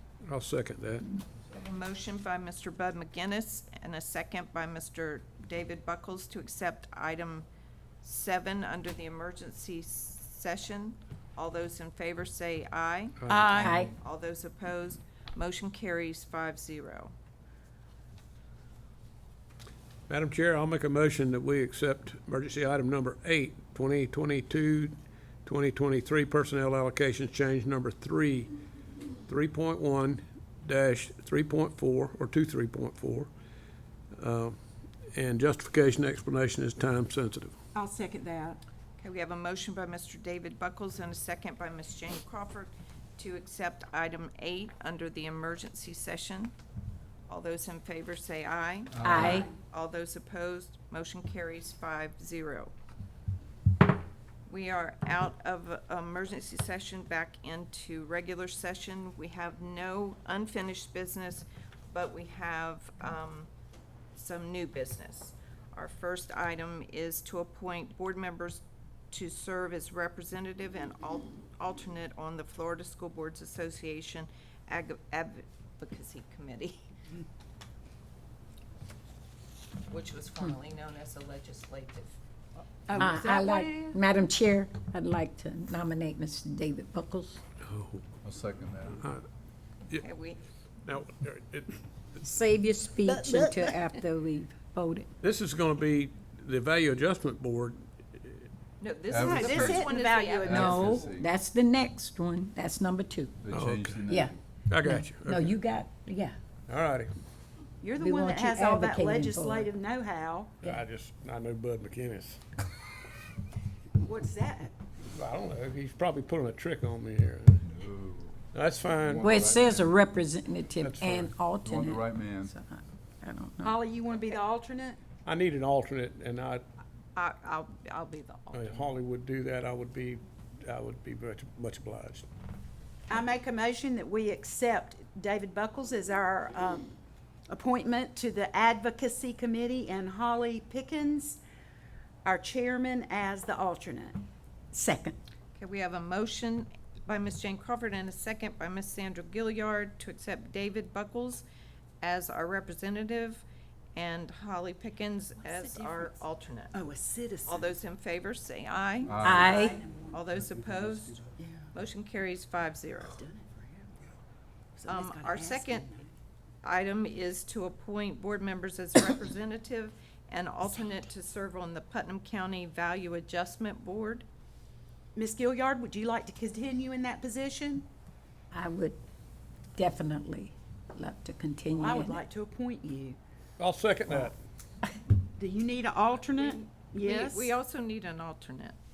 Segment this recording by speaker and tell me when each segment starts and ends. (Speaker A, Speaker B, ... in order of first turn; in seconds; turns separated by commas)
Speaker A: 0.2-1.1, Speaker B: 1.5-7.5, Speaker B: 8.0-17.1, Speaker A: 13.2-13.6, Speaker C: 13.3-13.8, Speaker D: 13.6-13.9, Speaker A: 20.1-28.5, Speaker A: 29.3-33.3, Speaker A: 34.1-34.6, Speaker A: 35.1-37.5, Speaker C: 37.7-38.6, Speaker B: 39.0-46.5, Speaker B: 47.3-52.7, Speaker E: 48.9-49.5, Speaker D: 49.0-49.5, Speaker B: 54.5-63.5, Speaker B: 64.2-76.9, Speaker B: 79.9-82.1, Speaker C: 82.9-84.0, Speaker D: 82.9-87.4, Speaker A: 87.7-88.0, Speaker E: 88.2-89.0, Speaker B: 90.0-90.4, Speaker A: 90.8-91.8, Speaker D: 92.2-95.1, Speaker C: 93.1-93.7, Speaker A: 95.2-98.5, Speaker B: 98.8-101.0, Speaker E: 99.1-99.9, Speaker C: 99.1-101.0, Speaker E: 100.4-101.3, Speaker D: 100.5-103.4, Speaker E: 103.4-104.4, Speaker A: 103.5-104.0, Speaker D: 104.1-106.3, Speaker A: 104.7-105.6, Speaker A: 106.7-107.1, Speaker C: 107.8-110.5, Speaker D: 108.0-109.7, Speaker A: 110.6-112.4, Speaker C: 114.0-114.7, Speaker A: 115.1-117.6, Speaker E: 117.6-118.4, Speaker A: 118.5-119.3, Speaker E: 119.0-120.0, Speaker D: 119.2-123.8, Speaker A: 120.8-121.3, Speaker E: 121.6-122.5, Speaker C: 123.6-125.0, Speaker A: 125.2-126.6, Speaker B: 127.1-128.8, Speaker A: 128.5-132.2, Speaker C: 133.1-136.9, Speaker C: 137.5-141.4, Speaker C: 142.2-144.2, Speaker D: 144.7-145.2, Speaker B: 145.5-151.4, Speaker B: 152.0-153.4, Speaker B: 153.9-156.8, Speaker C: 155.4-156.2, Speaker C: 156.7-157.7, Speaker B: 157.4-163.2, Speaker E: 159.1-159.5, Speaker C: 159.2-160.2, Speaker D: 159.2-159.8, Speaker C: 161.4-161.7, Speaker C: 163.1-164.1, Speaker C: 164.8-166.1, Speaker B: 164.9-165.9, Speaker B: 166.6-174.2, Speaker C: 175.1-177.8, Speaker D: 178.5-179.0, Speaker D: 179.7-182.2, Speaker C: 181.8-183.2, Speaker A: 183.6-184.3, Speaker C: 185.4-187.5, Speaker B: 186.2-188.8